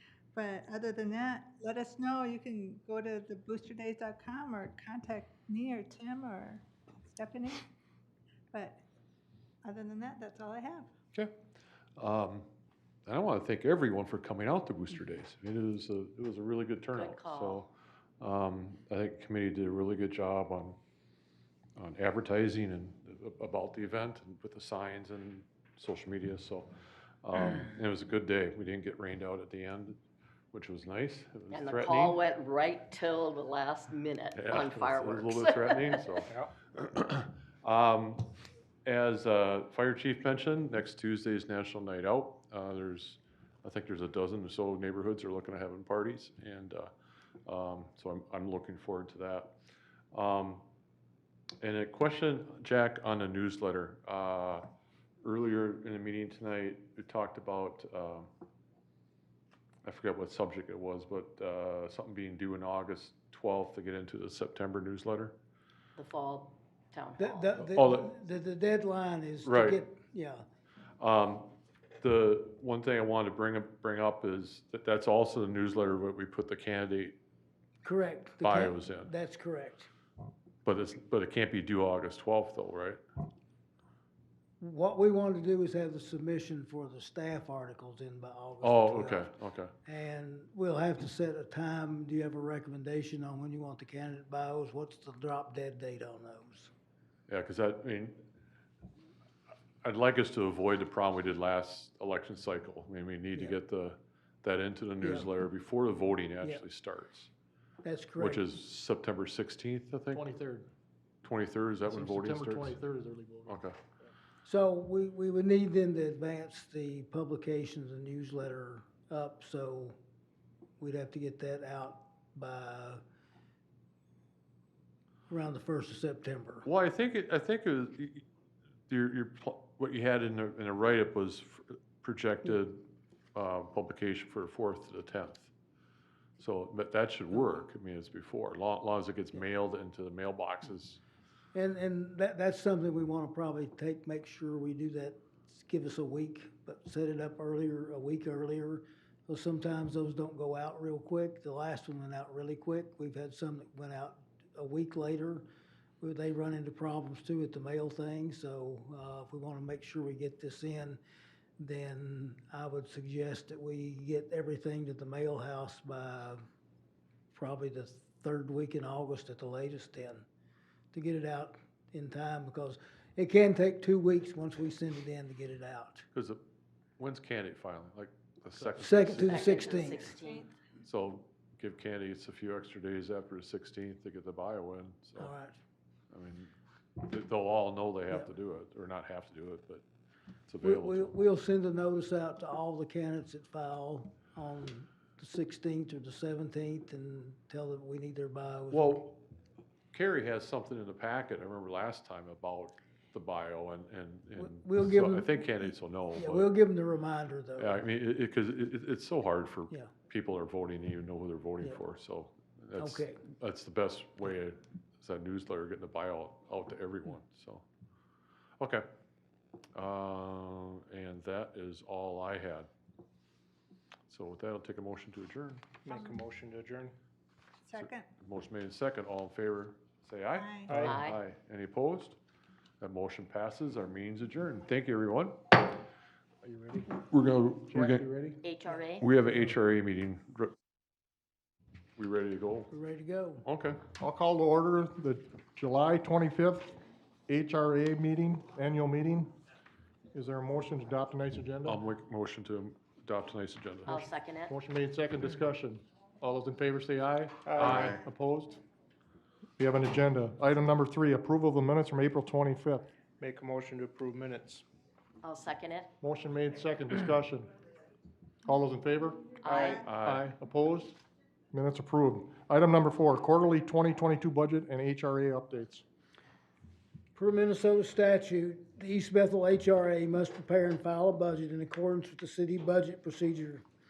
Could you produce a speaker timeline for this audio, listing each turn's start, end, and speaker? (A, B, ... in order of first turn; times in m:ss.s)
0:00.3-0:07.7 A
0:08.5-0:08.8 A
0:09.6-0:10.9 A
0:12.0-0:12.5 B
0:13.1-0:20.8 B
0:16.9-0:17.6 C
0:21.8-0:26.7 B
0:27.2-0:30.0 B
0:30.5-0:32.2 B
0:31.5-0:36.2 C
0:34.3-0:38.3 B
0:38.8-0:46.9 B
0:47.5-0:49.6 B
0:50.1-0:50.6 B
0:51.6-0:54.6 B
0:55.2-0:58.3 B
0:59.8-1:05.3 B
1:06.0-1:07.6 C
1:07.2-1:10.4 D
1:07.6-1:08.1 B
1:09.4-1:09.8 B
1:11.0-1:17.2 B
1:17.8-1:19.9 D
1:18.4-1:19.1 B
1:20.6-1:23.0 B
1:24.6-1:29.3 D
1:28.6-1:29.7 B
1:29.8-1:36.7 D
1:37.3-1:38.2 B
1:39.8-1:47.3 B
1:45.0-1:45.3 D
1:47.8-1:48.5 D
1:48.2-1:50.3 B
1:50.1-1:50.7 E
1:51.2-1:52.8 B
1:51.9-1:53.6 E
1:53.5-1:53.8 B
1:54.4-2:00.0 D
2:00.8-2:03.0 D
2:05.3-2:06.7 D
2:06.6-2:08.2 B
2:08.9-2:15.5 B
2:16.4-2:21.0 B
2:21.5-2:35.5 D
2:36.0-2:41.0 D
2:41.6-2:46.4 D
2:47.3-2:50.3 D
2:50.9-2:56.1 D
2:56.1-2:56.4 B
2:57.0-2:59.5 B
2:58.8-3:00.2 D
2:59.1-3:00.5 C
2:59.8-3:00.5 A
3:00.8-3:05.3 B
3:05.2-3:05.6 D
3:06.1-3:09.8 B
3:10.5-3:11.1 B
3:10.6-3:19.1 D
3:18.7-3:19.2 B
3:19.9-3:26.5 B
3:24.4-3:27.8 D
3:27.6-3:37.6 B
3:32.8-3:33.2 D
3:39.8-3:42.7 B
3:44.1-3:45.7 B
3:45.8-3:46.9 F
3:45.9-3:46.2 A
3:47.6-3:48.1 A
3:47.7-3:52.2 B
3:50.3-3:50.8 A
3:50.7-3:51.0 F
3:50.8-3:51.2 C
3:52.8-3:55.8 B
3:56.4-3:56.9 F
3:57.0-3:58.0 B
3:57.7-3:58.4 F
3:57.8-3:58.3 E
3:58.4-3:59.1 C
3:59.0-4:00.5 B
4:02.0-4:02.7 B
4:02.7-4:03.4 D
4:03.4-4:03.8 B
4:04.0-4:06.7 E
4:07.3-4:09.3 E
4:10.1-4:11.8 E
4:11.6-4:14.1 B
4:13.9-4:14.5 C
4:14.5-4:18.6 E
4:17.5-4:18.0 F
4:17.5-4:18.0 B
4:19.6-4:22.9 E
4:23.2-4:24.6 F
4:25.2-4:25.9 C
4:26.0-4:27.5 E
4:28.4-4:31.0 E
4:29.4-4:29.8 C
4:29.6-4:29.9 A
4:29.7-4:30.3 B
4:31.5-4:35.8 E
4:37.2-4:43.6 D